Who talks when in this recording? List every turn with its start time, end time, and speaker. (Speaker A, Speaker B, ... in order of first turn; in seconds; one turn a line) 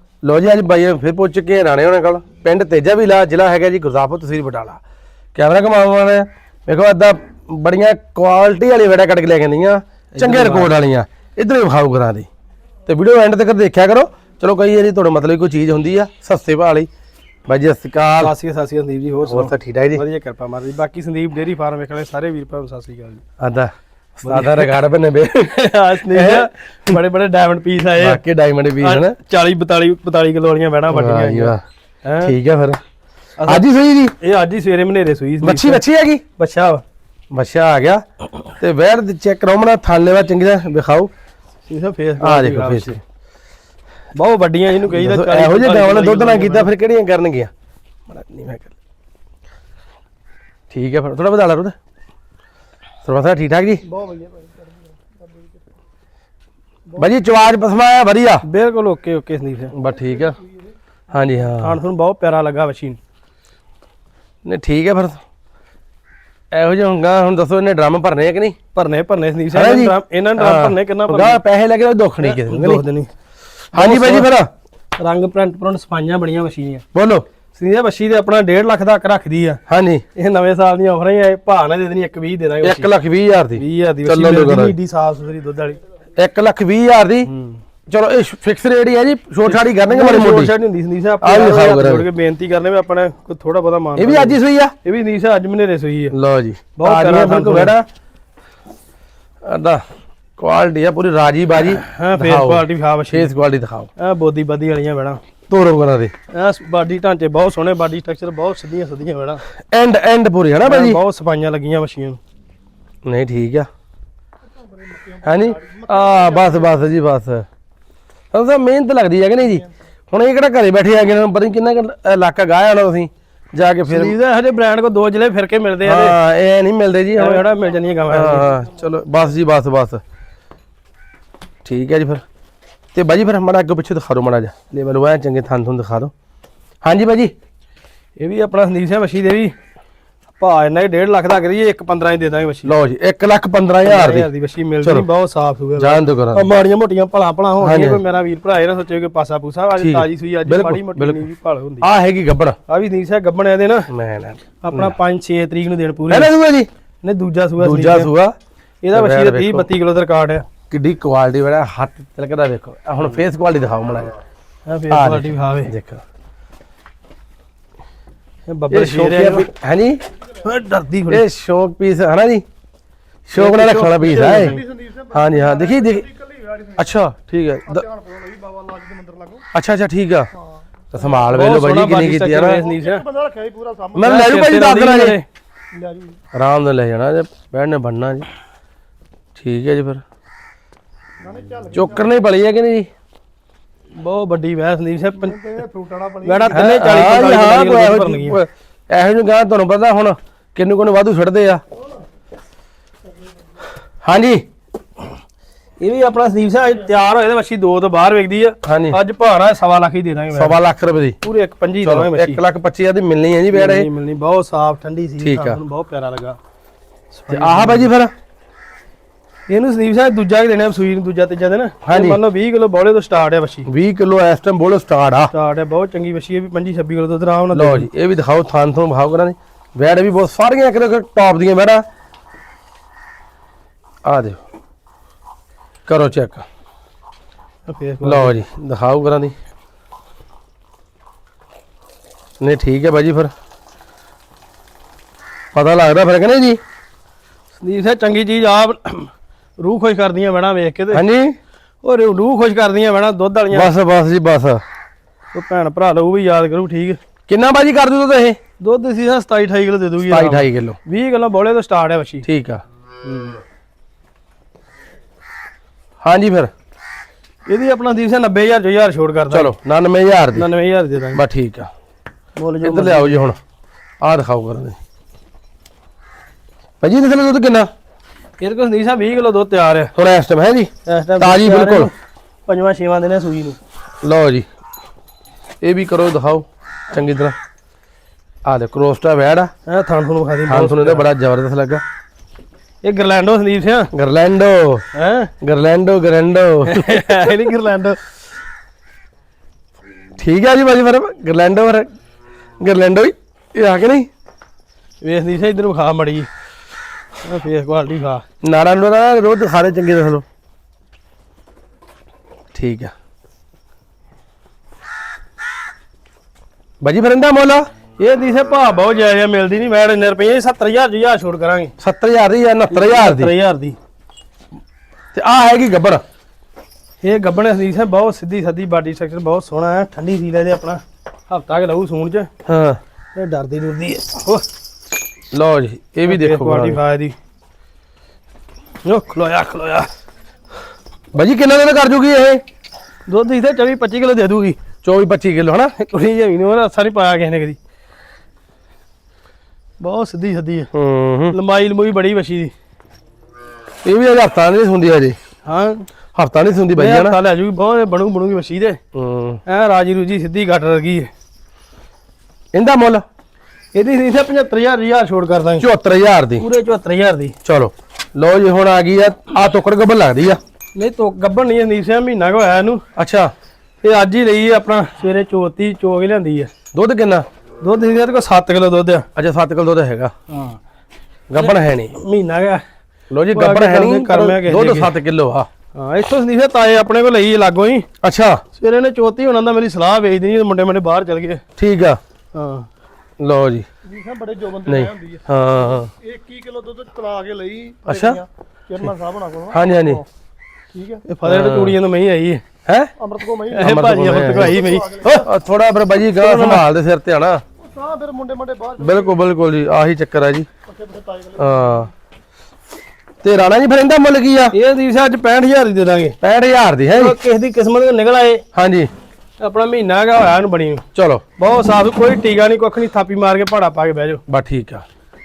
Speaker A: 0.2-4.8
Speaker A: 5.3-12.3
Speaker B: 10.2-10.7
Speaker A: 12.8-16.9
Speaker A: 17.5-18.3
Speaker B: 18.2-23.2
Speaker A: 19.3-20.0
Speaker A: 23.4-26.9
Speaker B: 24.2-24.7
Speaker B: 25.4-28.2
Speaker A: 28.0-29.1
Speaker B: 28.8-32.3
Speaker A: 30.9-31.6
Speaker A: 32.2-32.8
Speaker B: 33.4-33.6
Speaker A: 33.4-34.1
Speaker B: 34.2-35.8
Speaker A: 35.4-36.2
Speaker B: 36.4-36.8
Speaker A: 37.3-38.0
Speaker A: 38.6-41.1
Speaker B: 41.7-43.0
Speaker A: 42.2-43.0
Speaker B: 44.1-46.7
Speaker A: 44.9-47.5
Speaker A: 48.1-48.7
Speaker A: 50.7-51.8
Speaker A: 53.0-53.8
Speaker C: 53.9-54.7
Speaker A: 57.0-58.4
Speaker B: 58.4-59.7
Speaker A: 59.7-60.4
Speaker A: 61.1-61.8
Speaker B: 61.6-63.0
Speaker A: 64.4-65.2
Speaker A: 66.5-68.5
Speaker B: 68.7-71.4
Speaker A: 69.5-72.8
Speaker B: 72.2-73.1
Speaker B: 73.7-74.3
Speaker A: 73.7-74.5
Speaker B: 75.0-76.8
Speaker A: 76.9-77.2
Speaker B: 77.5-79.6
Speaker A: 79.7-80.0
Speaker B: 80.1-82.9
Speaker A: 82.6-84.7
Speaker B: 83.6-85.8
Speaker A: 86.2-87.3
Speaker B: 87.2-87.6
Speaker A: 87.9-90.5
Speaker B: 89.4-96.1
Speaker A: 91.2-92.0
Speaker A: 94.0-94.7
Speaker A: 96.1-97.9
Speaker B: 96.8-97.7
Speaker A: 99.4-99.8
Speaker A: 100.4-103.9
Speaker B: 101.7-103.3
Speaker B: 104.0-105.2
Speaker A: 105.5-106.1
Speaker B: 106.3-109.4
Speaker A: 109.7-111.0
Speaker B: 110.6-112.2
Speaker A: 113.0-113.7
Speaker C: 114.9-116.6
Speaker A: 115.2-117.5
Speaker A: 118.3-124.1
Speaker B: 123.9-126.2
Speaker A: 125.8-127.4
Speaker B: 127.1-128.6
Speaker A: 128.1-130.0
Speaker A: 131.6-132.2
Speaker A: 132.9-136.1
Speaker A: 136.8-137.3
Speaker B: 138.2-139.5
Speaker B: 140.4-142.7
Speaker A: 142.6-144.3
Speaker B: 143.8-151.9
Speaker A: 145.8-146.4
Speaker A: 147.6-148.0
Speaker A: 149.8-151.2
Speaker A: 151.8-152.6
Speaker B: 152.7-153.9
Speaker A: 153.9-154.9
Speaker B: 154.6-156.3
Speaker A: 156.1-156.7
Speaker B: 157.0-158.1
Speaker A: 157.6-158.3
Speaker B: 158.8-160.4
Speaker A: 158.9-159.7
Speaker A: 160.7-164.1
Speaker B: 164.7-165.7
Speaker A: 164.9-166.0
Speaker B: 168.5-169.5
Speaker A: 168.7-170.0
Speaker B: 170.4-171.2
Speaker A: 171.1-172.4
Speaker A: 173.3-176.1
Speaker B: 173.3-174.7
Speaker C: 174.7-176.8
Speaker A: 176.8-177.9
Speaker C: 177.7-179.4
Speaker A: 179.5-180.3
Speaker A: 180.9-182.6
Speaker B: 181.2-183.1
Speaker C: 182.6-184.0
Speaker A: 183.9-185.2
Speaker B: 183.9-185.2
Speaker C: 185.7-186.2
Speaker A: 186.3-188.2
Speaker A: 189.3-190.0
Speaker C: 191.2-192.1
Speaker A: 191.7-192.9
Speaker B: 193.9-195.4
Speaker C: 195.3-196.5
Speaker B: 196.2-198.4
Speaker A: 196.5-201.6
Speaker A: 204.0-204.4
Speaker B: 205.8-210.6
Speaker A: 208.6-209.0
Speaker A: 210.3-211.2
Speaker B: 211.2-212.4
Speaker A: 211.8-213.9
Speaker B: 213.5-216.4
Speaker A: 215.2-215.6
Speaker B: 217.1-217.9
Speaker A: 217.3-218.1
Speaker B: 219.5-223.7
Speaker A: 221.8-222.2
Speaker A: 223.7-225.3
Speaker B: 225.3-227.9
Speaker A: 227.5-231.8
Speaker A: 234.0-234.4
Speaker A: 235.9-236.4
Speaker B: 237.7-238.3
Speaker A: 238.0-239.3
Speaker A: 242.4-243.3
Speaker A: 245.5-246.6
Speaker B: 247.6-251.0
Speaker A: 250.9-251.4
Speaker B: 251.8-253.7
Speaker A: 253.5-254.6
Speaker B: 255.3-257.0
Speaker A: 257.3-258.4
Speaker B: 258.6-262.2
Speaker A: 260.0-260.8
Speaker A: 262.2-262.6
Speaker B: 263.0-263.4
Speaker A: 266.0-266.5
Speaker B: 267.5-269.5
Speaker A: 269.3-270.5
Speaker B: 270.3-271.2
Speaker A: 271.1-271.7
Speaker B: 272.4-273.3
Speaker A: 272.6-273.4
Speaker A: 274.0-274.8
Speaker A: 276.8-277.7
Speaker B: 278.4-279.9
Speaker A: 279.9-281.9
Speaker B: 280.8-281.9
Speaker B: 282.4-283.6
Speaker A: 284.0-284.4
Speaker A: 285.6-287.3
Speaker A: 288.4-289.5
Speaker B: 289.6-291.1
Speaker A: 290.5-291.8
Speaker B: 292.8-293.9
Speaker A: 293.9-294.8
Speaker B: 294.9-295.3
Speaker A: 295.4-297.2
Speaker B: 296.6-298.0
Speaker A: 300.2-301.9
Speaker A: 302.6-304.1
Speaker B: 305.0-306.3
Speaker B: 307.2-308.2
Speaker A: 308.4-310.2
Speaker A: 312.5-312.9
Speaker A: 316.8-317.7
Speaker B: 318.0-321.7
Speaker A: 321.8-323.3
Speaker B: 322.7-323.8
Speaker A: 325.1-326.0
Speaker B: 327.0-332.3
Speaker A: 332.4-332.8
Speaker B: 333.1-334.4
Speaker A: 335.3-336.8
Speaker B: 336.0-337.1
Speaker B: 338.8-339.9
Speaker A: 341.1-342.4
Speaker B: 343.1-344.6
Speaker A: 344.8-345.7
Speaker B: 345.8-347.6
Speaker B: 349.8-350.7
Speaker A: 350.7-351.3
Speaker B: 351.3-352.5
Speaker A: 353.8-355.2
Speaker B: 355.4-355.9
Speaker A: 356.1-357.2
Speaker B: 356.8-358.8
Speaker A: 358.9-359.4
Speaker B: 359.4-361.1
Speaker A: 362.5-363.0
Speaker B: 363.7-365.6
Speaker A: 365.6-366.4
Speaker B: 366.4-367.4
Speaker A: 367.4-370.4
Speaker B: 370.7-372.8
Speaker A: 372.9-373.3
Speaker B: 373.8-376.5
Speaker A: 376.7-377.2
Speaker B: 377.6-379.1
Speaker A: 379.1-380.1
Speaker B: 380.3-380.6
Speaker A: 381.3-381.9
Speaker B: 381.4-382.6
Speaker A: 383.1-385.5
Speaker B: 383.3-384.9
Speaker B: 385.7-387.9
Speaker A: 388.0-388.4
Speaker B: 388.5-391.4
Speaker A: 391.6-392.0
Speaker B: 392.3-392.7
Speaker A: 393.2-393.6
Speaker C: 393.8-395.2
Speaker A: 394.7-395.9
Speaker C: 395.9-400.0
Speaker A: 397.9-398.2
Speaker A: 399.5-400.0
Speaker C: 400.7-401.0
Speaker B: 401.0-402.4
Speaker A: 401.2-401.8
Speaker A: 402.6-402.9
Speaker C: 403.0-403.7
Speaker B: 403.5-405.2
Speaker A: 403.6-407.4
Speaker C: 404.4-405.2
Speaker B: 406.1-406.7
Speaker C: 407.6-409.1
Speaker A: 408.8-410.5
Speaker C: 410.7-411.6
Speaker A: 411.4-411.9
Speaker A: 413.2-414.6
Speaker B: 414.5-416.1
Speaker A: 416.2-417.1
Speaker B: 416.9-418.4
Speaker A: 418.5-418.9
Speaker B: 419.4-420.8
Speaker A: 420.9-421.2
Speaker B: 421.4-424.2
Speaker A: 424.3-424.8